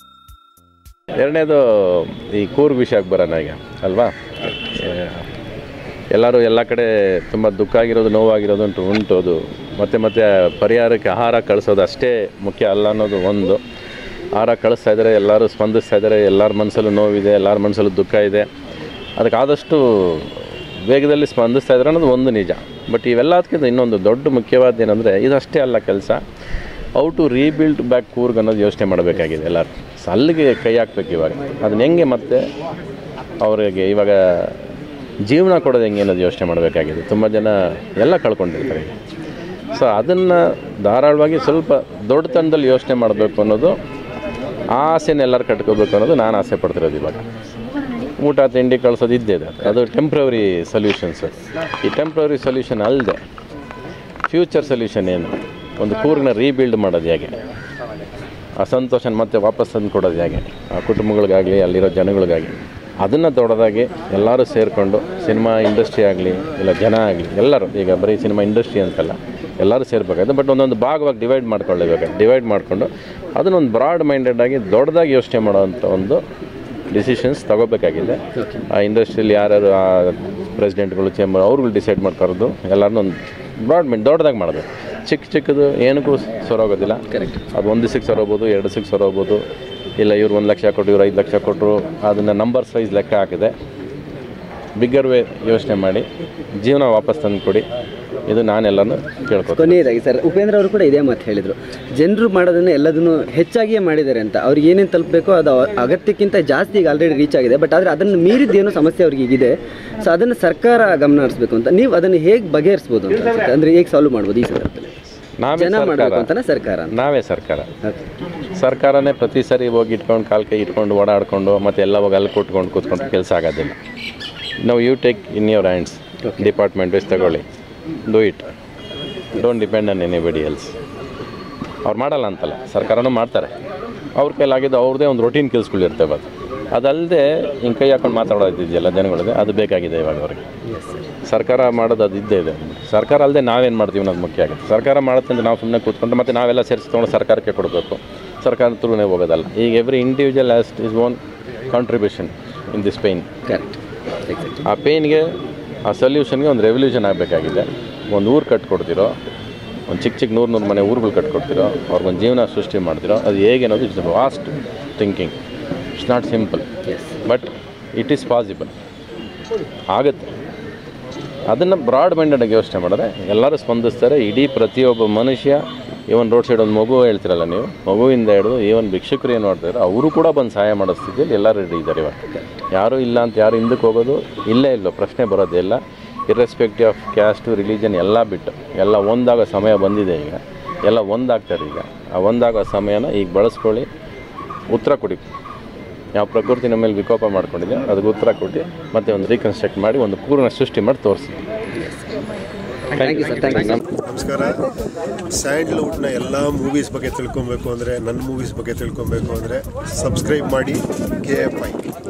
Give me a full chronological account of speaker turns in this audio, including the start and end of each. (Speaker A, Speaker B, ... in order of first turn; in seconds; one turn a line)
Speaker A: 1.2-5.2
Speaker A: 6.1-13.6
Speaker A: 14.3-18.5
Speaker A: 19.2-26.2
Speaker A: 27.0-32.5
Speaker A: 33.4-34.6
Speaker A: 35.2-38.9
Speaker A: 39.7-43.8
Speaker A: 44.7-47.2
Speaker A: 48.0-53.2
Speaker A: 54.3-57.4
Speaker A: 58.6-76.2
Speaker A: 76.9-89.4
Speaker B: 87.1-87.4
Speaker A: 90.0-93.5
Speaker A: 94.8-96.0
Speaker A: 96.6-97.7
Speaker A: 98.3-99.8
Speaker B: 99.5-117.0
Speaker A: 115.4-116.3
Speaker A: 116.9-117.7
Speaker A: 118.5-123.8
Speaker A: 124.6-127.5
Speaker B: 126.2-126.5
Speaker A: 128.1-128.5
Speaker A: 129.3-130.8
Speaker A: 131.8-133.5
Speaker A: 134.2-140.4
Speaker A: 141.2-151.2
Speaker A: 151.7-153.3
Speaker B: 153.5-154.6
Speaker A: 154.6-155.3
Speaker A: 155.8-159.1
Speaker A: 159.9-165.4
Speaker A: 166.0-166.7
Speaker A: 167.2-168.7
Speaker A: 169.9-170.3
Speaker A: 171.5-193.9
Speaker A: 194.7-195.2
Speaker A: 196.1-201.4
Speaker B: 202.9-203.8
Speaker A: 203.1-203.8
Speaker C: 204.0-204.6
Speaker C: 205.3-211.9